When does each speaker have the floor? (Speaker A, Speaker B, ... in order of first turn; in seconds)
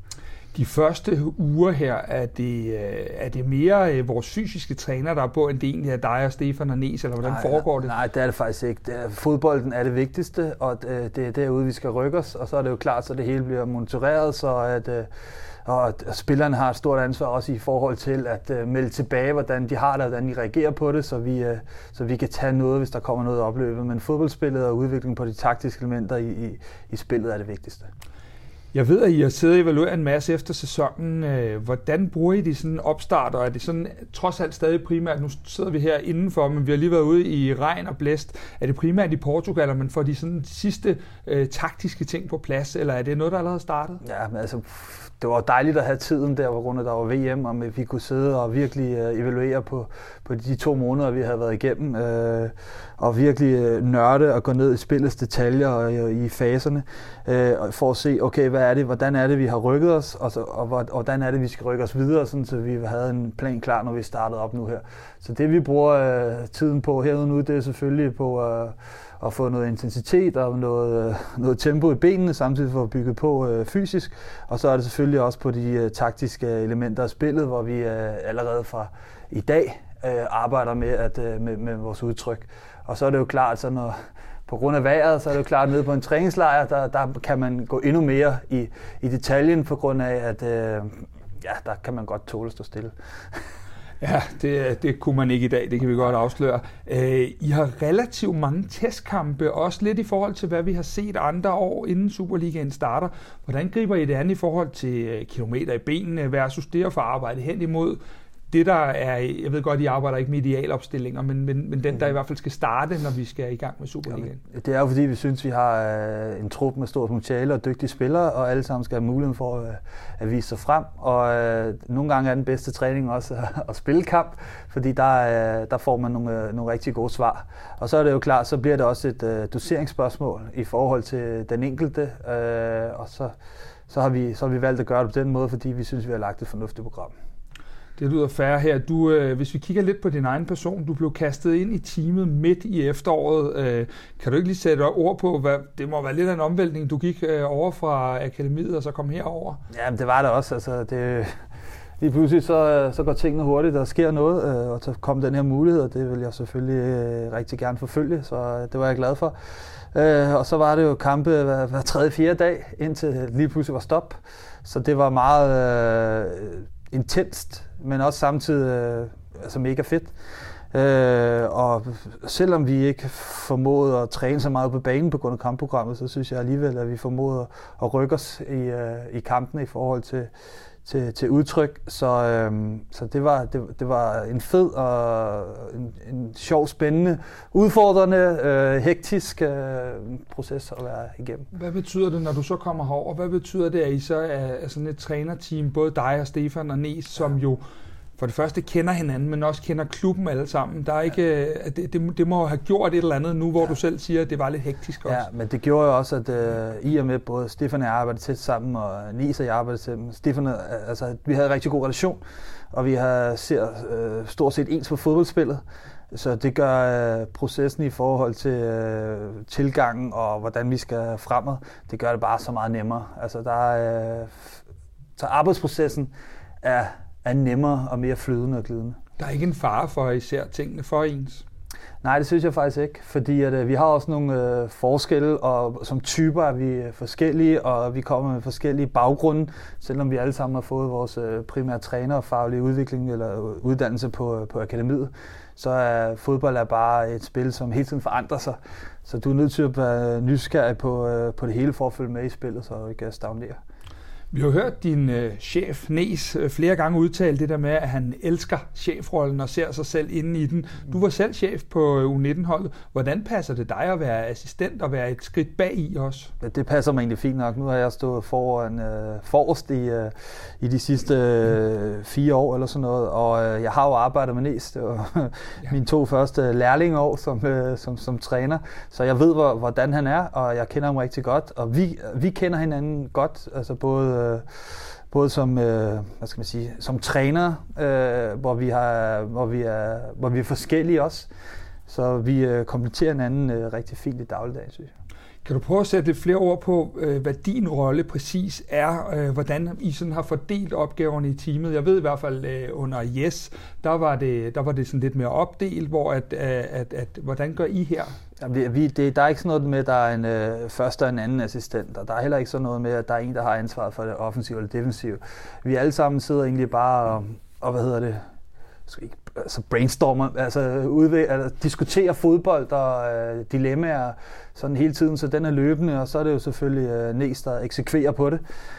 Speaker A: 0.5-7.9, 28.7-44.0, 94.0-108.0, 108.5-114.4, 138.0-149.6, 191.5-197.6, 198.2-205.2, 229.2-231.4, 254.3-266.3, 295.4-308.1
Speaker B: 7.2-15.1, 15.6-27.9, 44.0-83.9, 84.5-92.9, 114.1-133.3, 133.9-137.1, 149.7-151.3, 152.0-159.3, 159.9-170.1, 170.7-180.3, 180.8-191.5, 205.0-212.2, 212.7-224.6, 225.2-226.1, 226.6-229.0, 232.0-253.6, 266.4-291.3, 291.9-294.9, 308.4-318.2, 318.9-328.4